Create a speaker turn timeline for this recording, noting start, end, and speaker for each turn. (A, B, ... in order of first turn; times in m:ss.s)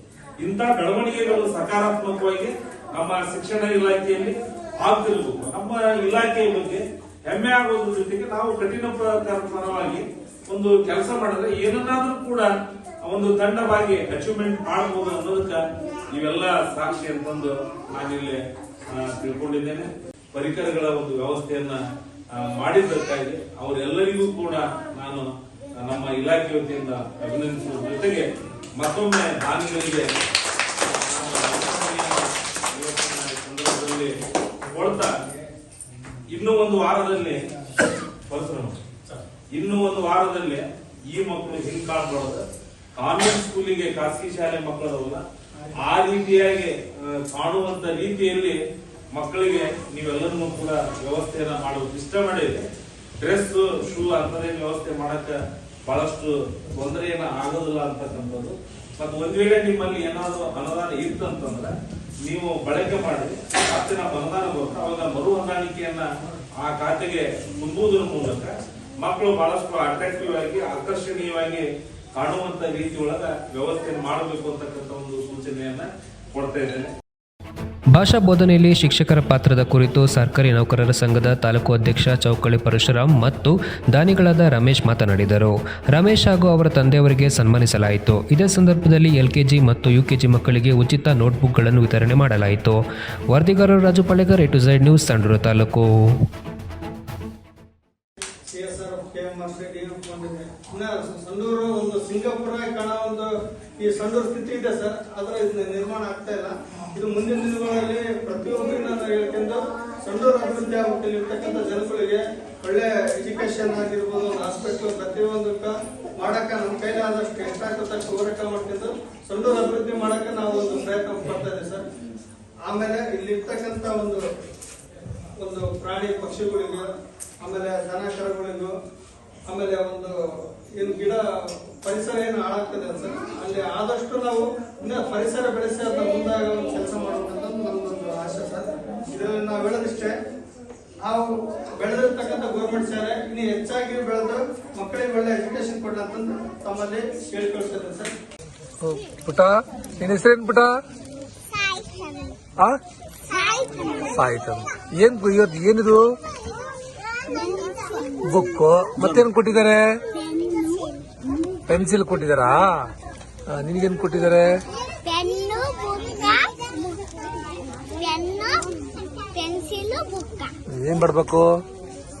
0:00.4-0:12.5 A
0:13.0-0:21.8 A
0:22.3-0:30.2 A
0:30.8-0:35.2 A
0:36.3-0:37.4 A
0:38.3-0:38.8 A
0:39.5-0:45.2 A
0:45.8-0:48.6 A
0:49.1-0:52.6 A
0:53.2-1:06.1 A
1:06.6-1:16.9 A
1:17.9-1:36.1 B
1:38.5-1:43.3 C
1:43.8-2:01.8 C
2:02.6-2:04.2 C
2:05.4-2:06.9 C
2:07.4-2:08.7 C
2:09.5-2:10.1 C
2:10.8-2:11.2 C
2:11.8-2:20.1 C
2:21.0-2:28.1 C
2:28.8-2:30.7 D
2:31.5-2:32.4 E
2:33.3-2:34.0 E
2:34.1-2:36.0 D
2:37.3-2:38.2 E
2:38.2-2:40.0 D
2:40.1-2:41.0 E
2:41.7-2:42.9 D
2:43.5-2:44.5 D
2:45.0-2:47.0 E
2:47.7-2:50.5 E
2:50.7-2:51.5 D